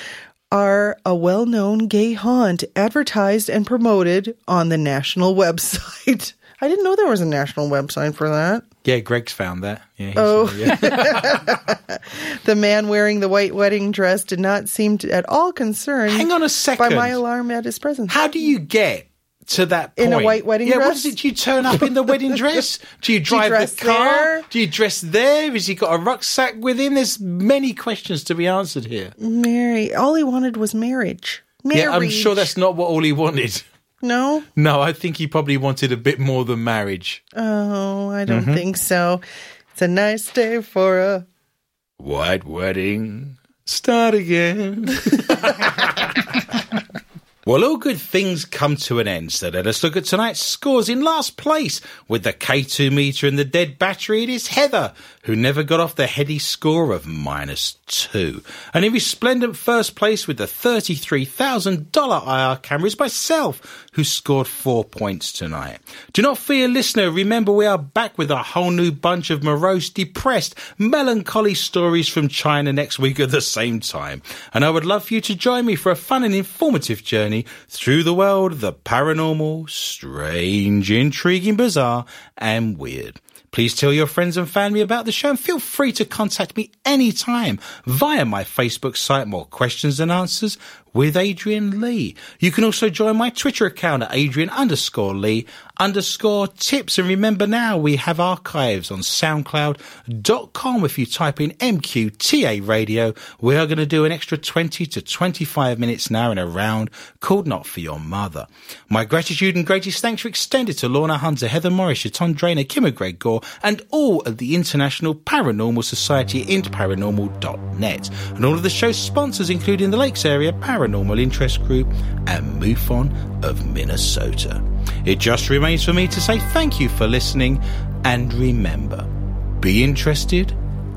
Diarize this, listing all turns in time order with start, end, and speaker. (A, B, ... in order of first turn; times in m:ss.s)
0:00.5-0:08.6 A
0:08.8-0:11.6 B
0:10.2-0:18.2 A
0:16.1-0:17.2 B
0:18.1-0:29.1 B
0:20.0-0:21.1 A
0:23.3-0:24.5 A
0:29.2-0:32.5 A
0:31.7-0:33.6 B
0:34.0-0:34.5 A
0:34.6-0:37.2 B
0:37.3-0:39.2 A
0:38.3-0:38.6 B
0:39.8-0:41.2 A
0:42.0-0:46.4 B
0:47.4-2:09.1 B
2:09.6-2:10.6 B